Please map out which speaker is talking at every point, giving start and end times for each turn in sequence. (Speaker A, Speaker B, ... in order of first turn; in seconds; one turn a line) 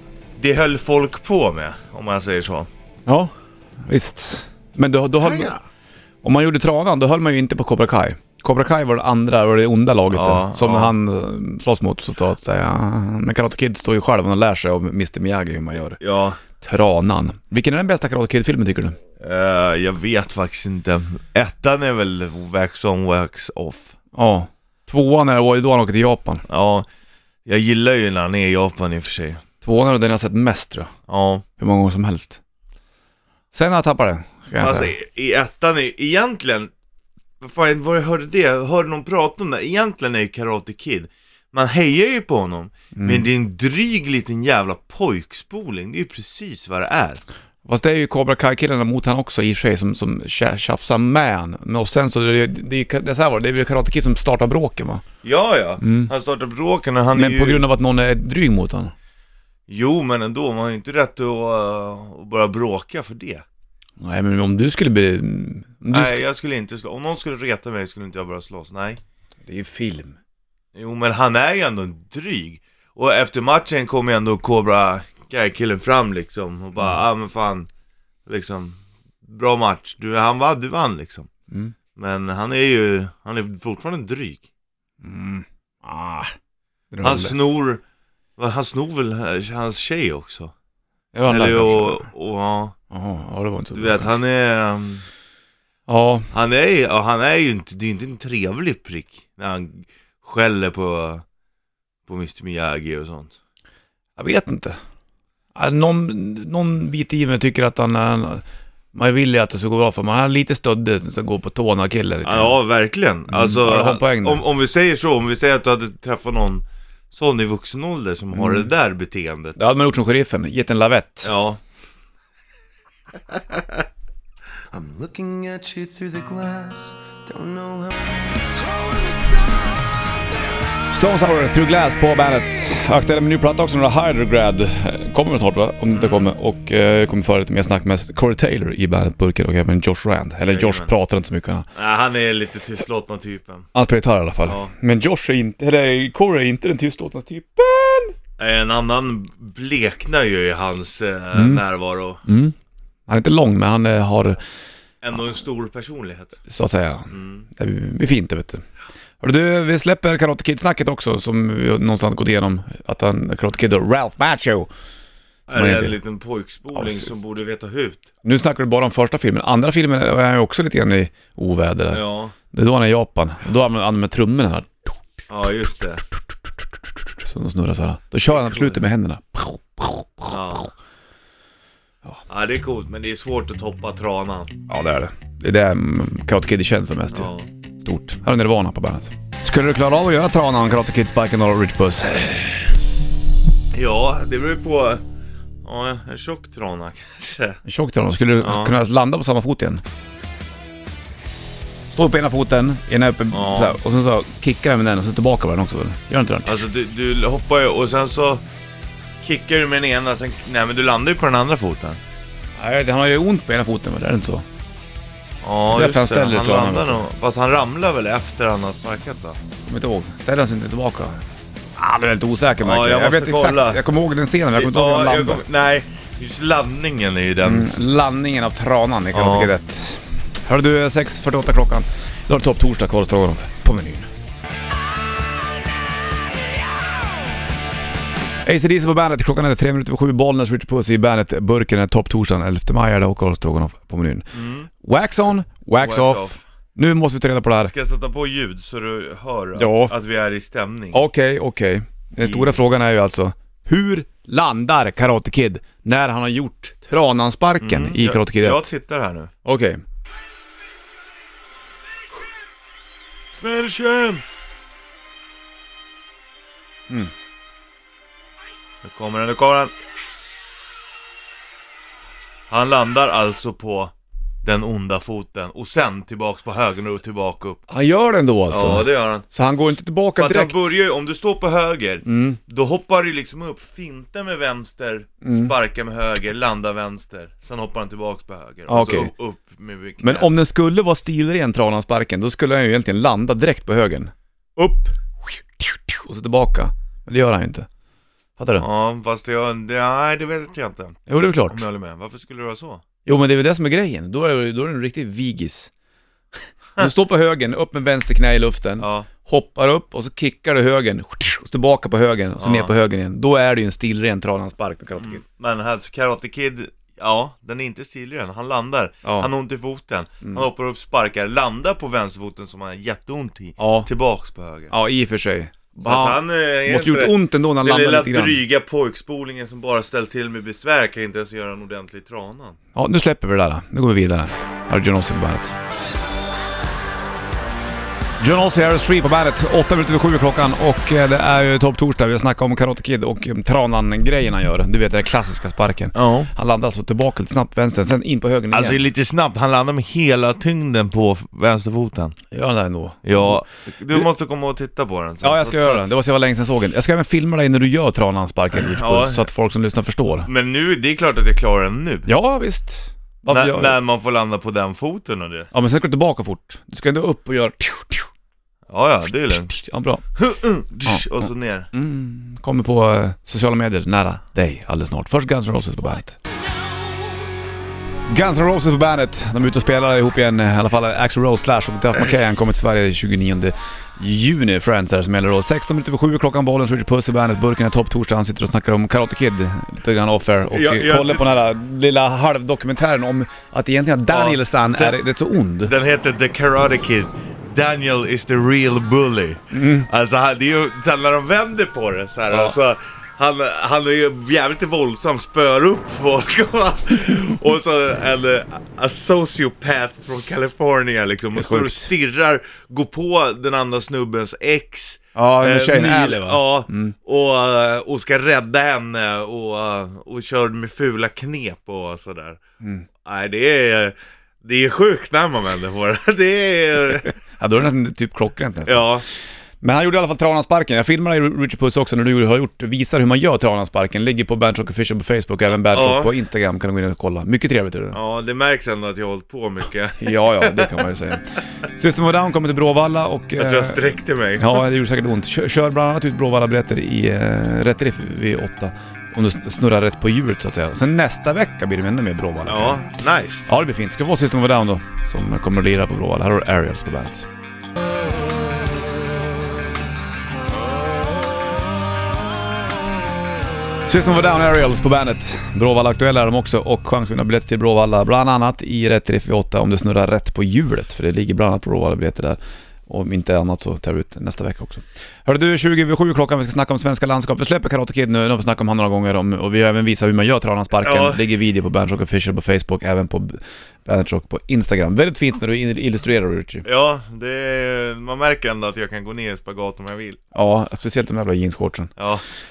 Speaker A: 0.4-2.7
Speaker B: 3.0-3.3
Speaker B: 3.8-5.5
Speaker A: 5.2-5.6
Speaker B: 6.2-16.0
Speaker A: 10.1-10.9
Speaker A: 16.0-16.4
Speaker B: 16.6-19.0
Speaker A: 19.2-23.9
Speaker B: 24.1-26.4
Speaker A: 26.5-26.9
Speaker A: 27.4-29.4
Speaker B: 29.6-30.9
Speaker A: 31.1-31.4
Speaker B: 31.6-32.4
Speaker B: 33.5-34.9
Speaker A: 34.6-36.7
Speaker A: 37.4-47.2
Speaker B: 42.9-43.2
Speaker B: 47.6-55.0
Speaker A: 55.2-57.6
Speaker B: 55.8-56.1
Speaker B: 57.1-58.9
Speaker A: 59.7-63.4
Speaker B: 64.0-66.2
Speaker A: 65.9-69.0
Speaker B: 69.5-70.2
Speaker A: 70.7-77.7
Speaker A: 78.2-81.3
Speaker A: 82.0-84.4
Speaker B: 85.0-86.3
Speaker B: 86.9-87.3
Speaker A: 87.0-87.8
Speaker A: 88.4-90.5
Speaker B: 91.1-92.0
Speaker A: 91.3-92.7
Speaker B: 92.9-94.1
Speaker A: 93.7-95.0
Speaker B: 95.9-96.3
Speaker A: 96.3-101.2
Speaker A: 102.1-103.3
Speaker B: 104.2-104.8
Speaker B: 105.5-112.5
Speaker A: 112.2-119.6
Speaker B: 113.3-114.4
Speaker B: 118.3-118.7
Speaker B: 119.5-121.3
Speaker A: 121.2-121.6
Speaker A: 123.3-123.8
Speaker C: 124.7-127.9
Speaker C: 128.6-129.8
Speaker B: 130.9-141.7
Speaker A: 135.9-136.3
Speaker A: 140.5-140.9
Speaker A: 141.7-143.7
Speaker B: 143.7-148.1
Speaker A: 144.4-144.7
Speaker A: 148.4-152.2
Speaker B: 151.3-151.6
Speaker B: 152.2-152.5
Speaker B: 153.1-154.4
Speaker A: 155.0-156.4
Speaker B: 156.5-158.6
Speaker A: 157.1-157.4
Speaker B: 159.2-164.7
Speaker A: 165.5-168.1
Speaker B: 165.5-166.0
Speaker B: 166.7-167.1
Speaker B: 168.2-175.0
Speaker A: 171.9-172.3
Speaker A: 175.3-176.0
Speaker B: 177.1-180.3
Speaker A: 178.3-178.8
Speaker A: 180.2-180.7
Speaker A: 182.3-184.5
Speaker B: 184.7-192.6
Speaker A: 187.1-187.5
Speaker A: 193.7-195.0
Speaker A: 195.6-197.6
Speaker B: 197.6-199.8
Speaker A: 198.4-198.8
Speaker B: 201.9-206.5
Speaker A: 203.3-203.8
Speaker A: 206.4-208.4
Speaker A: 209.2-212.0
Speaker B: 212.6-214.4
Speaker A: 215.4-219.4
Speaker B: 215.7-217.0
Speaker B: 219.7-221.2
Speaker B: 221.8-225.4
Speaker A: 222.6-223.8
Speaker A: 224.5-227.8
Speaker B: 227.4-234.1
Speaker A: 229.1-229.5
Speaker B: 238.4-244.3
Speaker A: 244.3-244.7
Speaker B: 244.8-247.7
Speaker A: 245.8-246.4
Speaker A: 247.6-251.0
Speaker B: 249.6-249.9
Speaker B: 250.9-258.7
Speaker A: 252.2-252.5
Speaker A: 257.6-259.3
Speaker B: 259.4-259.8
Speaker A: 263.4-264.2
Speaker A: 268.8-269.7
Speaker A: 272.5-273.9
Speaker A: 274.4-277.6
Speaker B: 277.7-280.6
Speaker A: 278.5-279.2
Speaker A: 280.1-290.3
Speaker B: 282.1-282.4
Speaker B: 285.2-285.5
Speaker B: 288.7-289.1
Speaker B: 290.0-297.7
Speaker B: 298.4-298.6
Speaker A: 298.6-302.8
Speaker B: 301.1-301.6
Speaker B: 303.1-305.7
Speaker B: 306.8-315.2
Speaker A: 308.8-309.1
Speaker A: 312.4-312.7
Speaker A: 315.0-324.7
Speaker B: 319.0-319.3
Speaker B: 323.6-323.9
Speaker B: 324.7-328.4
Speaker A: 325.8-332.6
Speaker B: 332.7-335.6
Speaker B: 338.2-348.8
Speaker A: 345.9-346.3
Speaker A: 348.5-352.2
Speaker B: 352.3-353.4
Speaker A: 353.0-355.9
Speaker B: 355.2-360.3
Speaker A: 358.5-359.2
Speaker A: 360.2-362.1
Speaker B: 362.1-363.8
Speaker A: 363.3-365.5
Speaker B: 365.5-368.1
Speaker A: 368.7-369.5
Speaker B: 369.5-370.0
Speaker A: 370.1-371.7
Speaker B: 370.9-376.2
Speaker B: 378.1-395.7
Speaker A: 390.5-391.3
Speaker A: 394.1-395.0
Speaker A: 395.6-422.4
Speaker B: 399.5-399.9
Speaker B: 402.3-402.5
Speaker B: 411.3-411.9
Speaker B: 415.1-416.9
Speaker A: 423.0-427.1
Speaker B: 427.4-428.9
Speaker A: 428.6-429.0
Speaker B: 429.6-438.0
Speaker A: 435.7-436.1
Speaker A: 437.9-440.7
Speaker B: 440.0-443.8
Speaker A: 443.4-444.6
Speaker B: 444.4-452.8
Speaker A: 452.4-453.5
Speaker B: 453.5-457.3
Speaker B: 463.9-486.6
Speaker A: 480.8-481.2
Speaker A: 486.6-490.2
Speaker B: 490.3-491.9
Speaker A: 492.0-492.2